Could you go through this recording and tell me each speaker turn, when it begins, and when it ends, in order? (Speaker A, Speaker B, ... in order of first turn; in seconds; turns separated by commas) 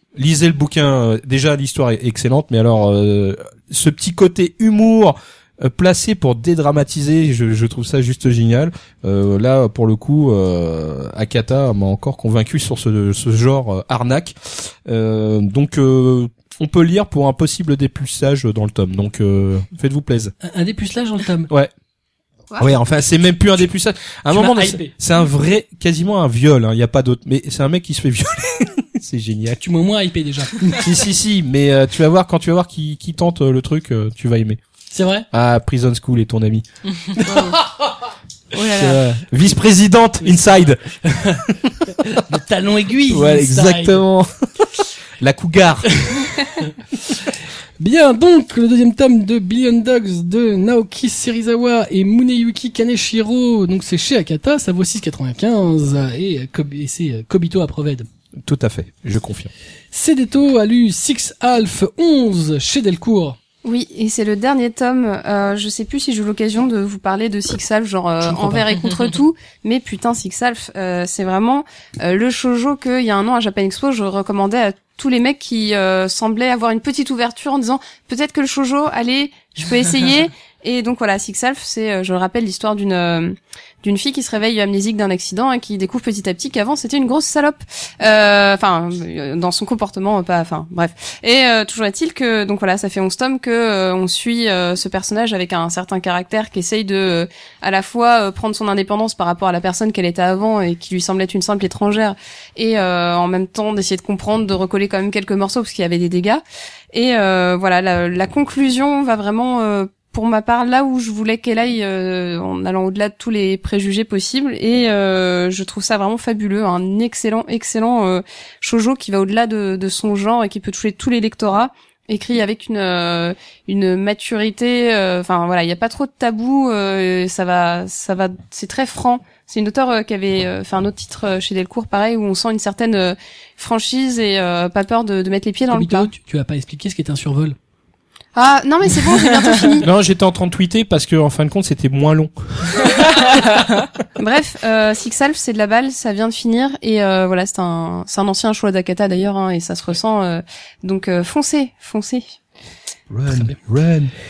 Speaker A: 0.1-20.3, Speaker B: 20.4-21.5, Speaker C: 22.5-22.8, Speaker A: 22.6-29.6, Speaker B: 24.3-24.9, Speaker B: 29.6-30.9, Speaker A: 30.8-34.6, Speaker B: 34.9-35.3, Speaker A: 35.3-36.6, Speaker B: 37.1-38.1, Speaker C: 37.3-37.6, Speaker C: 38.6-39.0, Speaker A: 38.6-40.8, Speaker B: 40.2-44.0, Speaker A: 41.4-42.1, Speaker A: 43.1-46.3, Speaker B: 46.0-46.7, Speaker B: 47.8-58.1, Speaker A: 58.4-59.5, Speaker B: 59.9-63.4, Speaker C: 63.6-136.1, Speaker B: 68.2-68.7, Speaker B: 135.7-137.6, Speaker C: 138.3-139.9, Speaker A: 139.8-143.1, Speaker C: 144.2-152.3, Speaker A: 153.1-154.1, Speaker B: 153.3-153.6